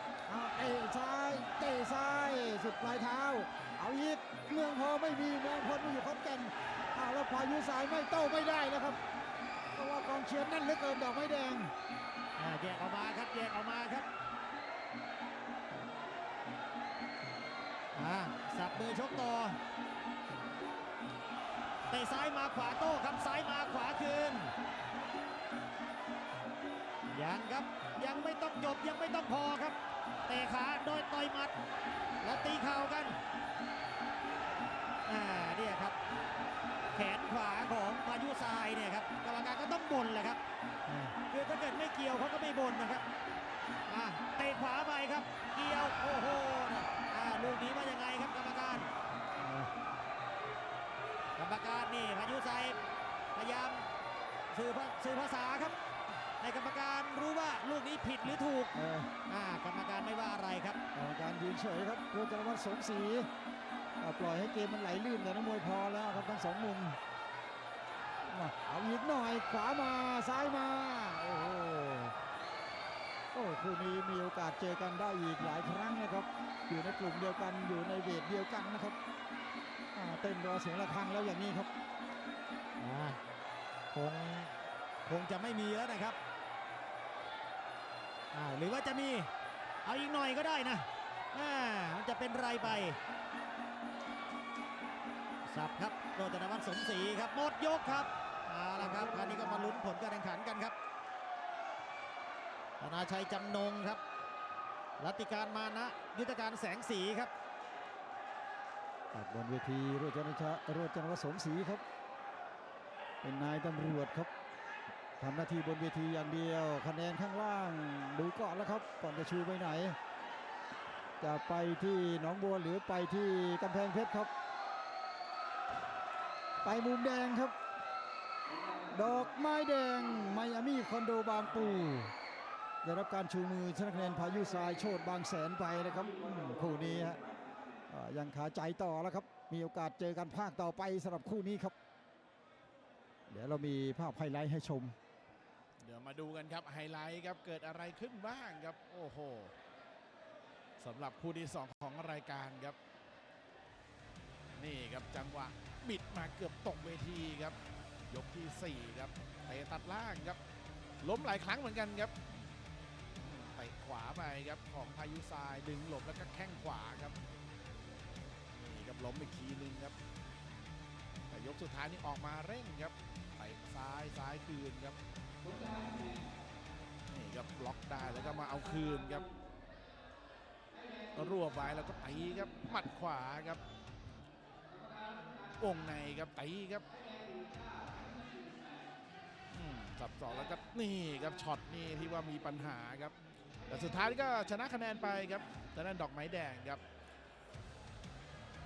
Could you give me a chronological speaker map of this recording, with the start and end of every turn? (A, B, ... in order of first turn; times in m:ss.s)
0:00.3-0:09.0 A
0:09.7-0:11.7 A
0:12.4-0:14.0 B
0:17.9-0:19.6 B
0:21.9-0:24.5 B
0:27.1-0:29.8 B
0:30.3-0:31.5 B
0:32.2-0:33.2 B
0:35.0-0:36.0 B
0:36.9-0:40.4 B
0:40.9-0:41.1 A
0:41.3-0:43.0 B
0:43.8-0:48.9 B
0:49.4-0:49.7 A
0:51.4-0:52.8 B
0:53.3-0:53.8 B
0:54.5-0:55.7 B
0:56.4-0:58.7 B
0:58.7-0:59.1 A
0:59.3-1:00.8 B
1:00.9-1:03.3 A
1:04.0-1:07.0 A
1:08.2-1:12.1 A
1:13.3-1:19.0 A
1:19.9-1:21.7 A
1:22.8-1:23.2 B
1:23.9-1:24.5 B
1:25.0-1:26.2 B
1:28.3-1:29.3 B
1:29.8-1:33.0 B
1:35.4-1:40.7 B
1:38.9-1:39.4 A
1:42.8-1:44.0 B
1:45.0-1:47.3 B
1:49.1-1:51.8 A
1:53.2-1:54.3 A
1:55.2-2:00.0 A
2:01.2-2:04.3 A
2:06.6-2:07.5 A
2:08.9-2:12.1 A
2:12.8-2:17.2 A
2:17.9-2:21.7 A
2:23.3-2:24.9 A
2:25.8-2:29.5 C
2:30.8-2:32.8 C
2:34.6-2:37.6 C
2:38.1-2:40.4 C
2:41.0-2:42.2 C
2:43.2-2:47.2 C
2:48.6-2:49.9 C
2:51.3-2:55.0 C
2:57.1-2:59.2 C
3:01.1-3:03.6 C
3:05.4-3:06.9 C
3:09.5-3:13.1 C
3:13.7-3:16.8 C